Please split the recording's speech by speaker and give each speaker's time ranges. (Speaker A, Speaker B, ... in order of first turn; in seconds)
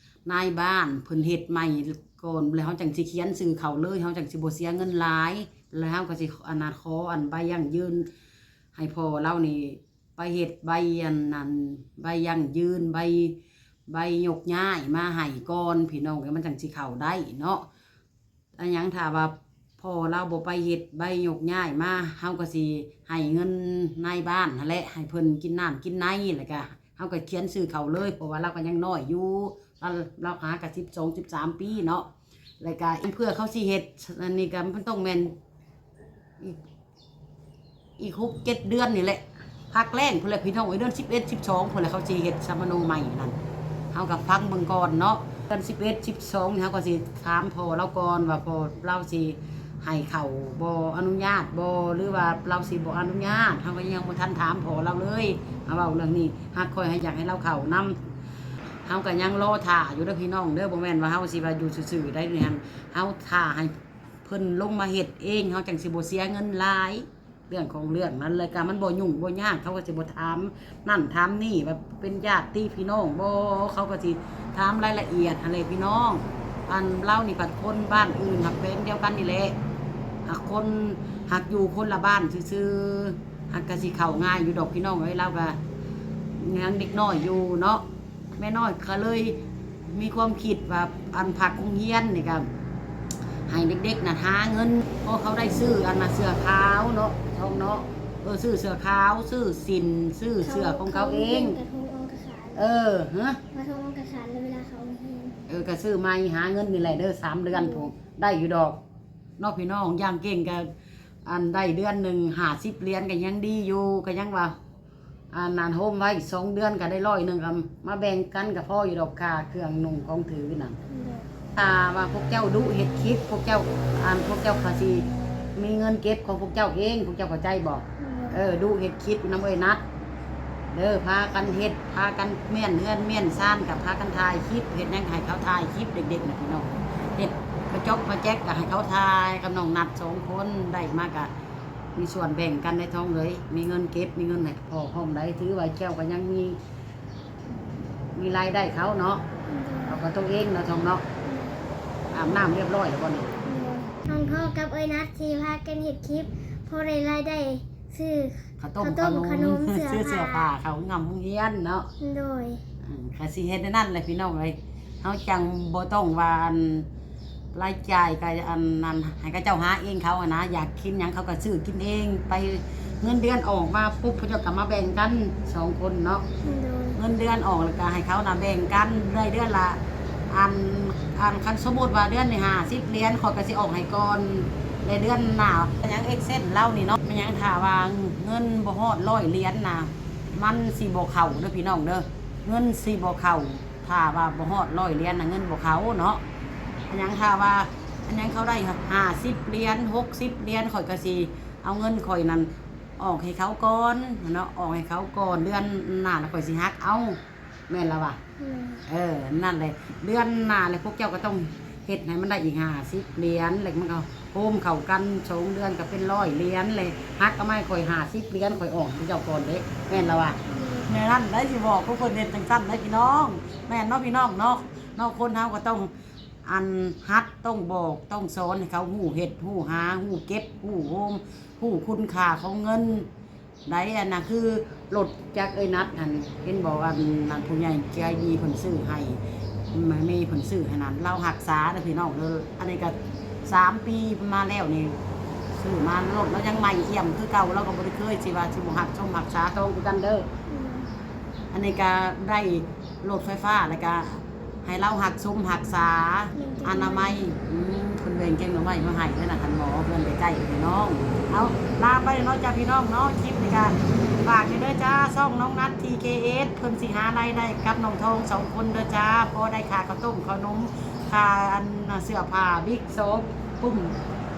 Speaker A: 0.3-8.1, 8.8-13.4, 13.9-17.6, 18.6-32.1, 32.6-35.4, 38.0-43.4, 43.9-58.0, 58.9-63.7, 64.2-79.6, 80.3-85.6, 86.4-87.8, 88.4-92.5, 93.5-101.6, 102.6-103.4, 105.5-108.8, 109.4-110.7, 111.2-114.5, 115.3-120.8, 121.5-129.8, 130.7-141.3, 141.9-146.6, 148.1-149.2, 149.9-151.1, 152.1-153.3, 158.6-161.9, 162.8-166.9, 167.5-176.3, 176.9-196.2, 196.9-208.2, 208.9-225.9, 226.4-233.1, 233.7-239.2, 239.7-245.0, 245.5-250.3, 251.5-273.9
Speaker B: 97.5-97.9, 100.4-102.7, 103.5-105.4, 107.5-107.9, 120.9-121.3, 128.0-128.4, 149.5-150.0, 151.2-151.6, 153.4-160.5, 162.0-162.6, 176.4-177.0, 208.4-208.8, 220.0-220.9, 250.5-250.9, 256.4-257.2